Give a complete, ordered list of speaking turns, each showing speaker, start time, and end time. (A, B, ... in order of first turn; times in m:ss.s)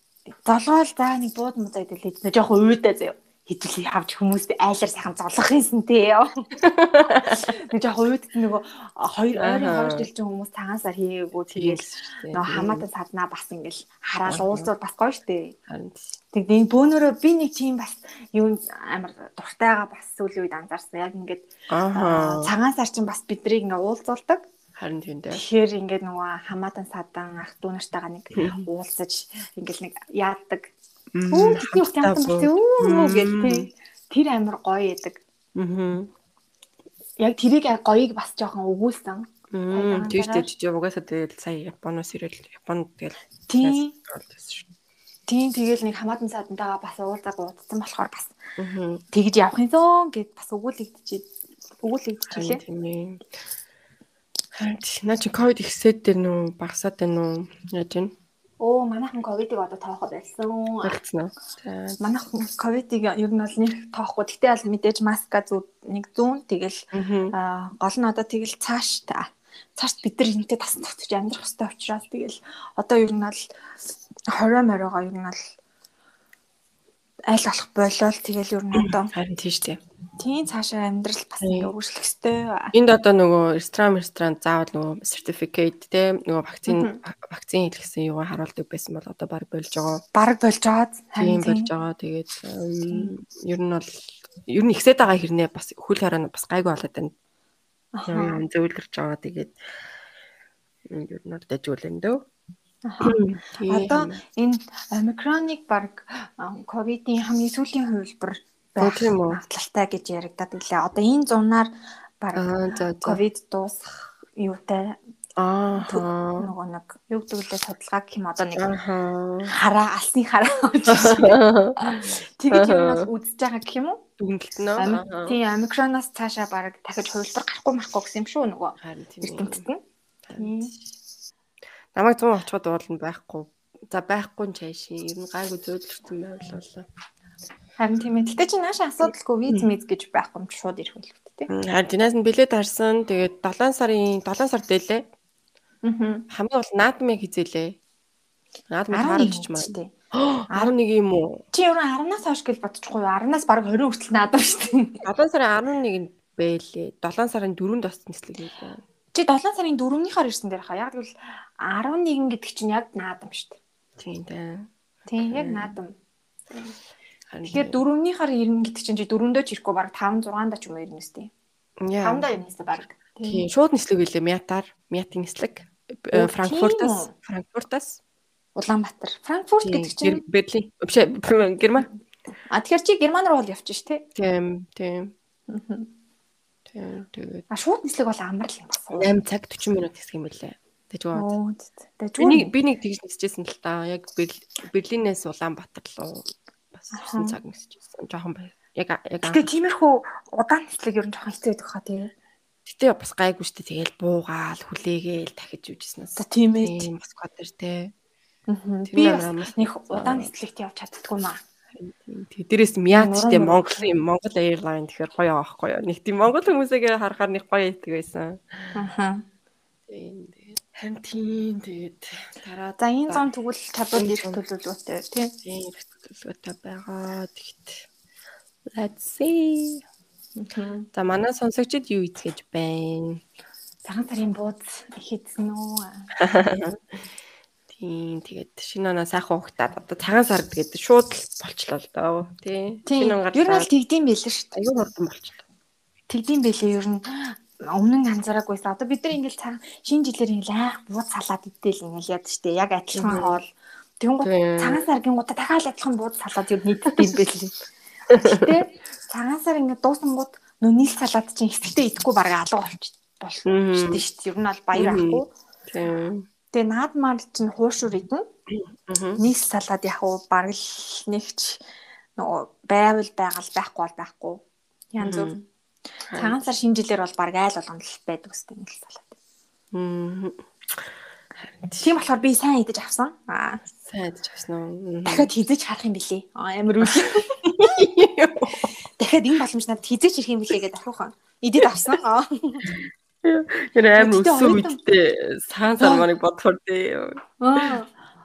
0:00.4-0:06.5 A
0:06.6-0:07.5 B
0:07.1-0:15.6 A
0:09.4-0:10.1 B
0:11.5-0:12.9 B
0:14.2-0:14.7 B
0:15.7-0:16.1 B
0:16.3-0:24.4 A
0:21.7-0:22.5 B
0:24.8-0:25.4 B
0:25.3-0:30.7 A
0:28.3-0:28.6 B
0:31.1-0:33.7 B
0:31.3-0:35.2 A
0:35.6-0:36.1 B
0:37.2-0:40.5 A
0:39.5-0:44.7 B
0:43.5-0:43.9 A
0:45.3-0:48.4 A
0:48.6-0:49.0 B
0:49.1-0:51.2 A
0:51.8-0:52.6 A
0:52.3-0:53.2 B
0:54.5-0:58.1 B
0:58.6-1:01.0 A
1:00.8-1:02.0 B
1:02.0-1:13.4 A
1:06.9-1:07.3 B
1:14.3-1:15.4 A
1:17.3-1:19.1 A
1:18.7-1:19.8 B
1:20.2-1:22.7 A
1:21.4-1:21.7 B
1:22.7-1:30.0 B
1:26.7-1:27.0 A
1:30.1-1:31.7 A
1:31.2-1:37.1 B
1:37.9-1:38.4 A
1:38.1-1:39.6 B
1:40.9-1:42.2 B
1:42.8-1:55.0 A
1:43.0-1:44.2 B
1:48.8-1:49.4 B
1:52.4-1:53.2 B
1:55.4-1:56.5 B
1:55.7-1:58.6 A
1:58.6-1:59.5 B
1:59.5-2:04.0 A
2:00.9-2:03.1 B
2:04.2-2:05.4 B
2:04.8-2:09.8 A
2:08.8-2:09.6 B
2:10.2-2:10.9 B
2:10.4-2:10.7 A
2:11.9-2:16.8 B
2:17.8-2:21.5 A
2:21.5-2:25.0 B
2:25.8-2:26.2 A
2:26.3-2:27.8 B
2:28.7-2:31.4 B
2:28.9-2:29.9 A
2:31.5-2:35.0 A
2:35.0-2:38.8 B
2:39.1-2:43.6 A
2:44.0-2:44.7 B
2:45.1-2:45.9 A
2:45.3-2:45.8 B
2:47.3-2:47.8 B
2:47.4-2:51.3 A
2:51.8-2:52.2 B
2:52.0-2:53.4 A
2:53.2-2:58.0 B
2:56.1-2:57.1 A
2:58.6-3:00.2 A
2:59.6-3:01.9 B
3:02.5-3:04.0 A
3:04.1-3:05.1 B
3:05.5-3:05.9 A
3:06.7-3:07.4 B
3:07.5-3:09.1 A
3:08.9-3:11.3 B
3:11.1-3:12.5 A
3:12.2-3:19.5 B
3:16.9-3:17.4 A
3:19.2-3:22.1 A
3:22.6-3:27.9 B
3:26.2-3:26.9 A
3:28.5-3:31.4 A
3:28.9-3:30.3 B
3:31.7-3:38.7 B
3:32.9-3:33.9 A
3:38.7-3:39.2 A
3:39.9-3:43.2 B
3:42.8-3:45.3 A
3:43.9-3:44.4 B
3:45.4-3:47.8 B
3:48.7-3:49.8 B
3:50.4-3:50.9 A
3:50.9-3:53.2 B
3:53.8-3:56.1 A
3:56.2-3:56.8 B
3:57.7-4:03.7 B
4:02.9-4:04.5 A
4:04.5-4:05.4 B
4:06.1-4:13.5 A
4:13.0-4:13.4 B
4:14.0-4:17.6 A
4:14.2-4:14.8 B
4:18.1-4:18.4 B
4:18.2-4:25.3 A
4:23.4-4:24.0 B
4:24.7-4:26.2 B
4:26.5-4:28.2 A
4:28.5-4:29.2 B
4:29.2-4:31.6 A
4:32.2-4:35.3 A
4:35.0-4:35.4 B
4:36.1-4:36.4 B
4:36.1-4:39.1 A
4:39.7-4:40.4 B
4:41.5-4:41.9 B
4:41.8-4:43.6 A
4:43.8-4:45.3 B
4:45.0-4:47.4 A
4:46.8-4:48.7 B
4:49.0-4:52.7 A
4:52.7-4:57.8 B
4:54.0-4:54.8 A
4:55.8-4:56.0 A
4:57.4-4:57.9 A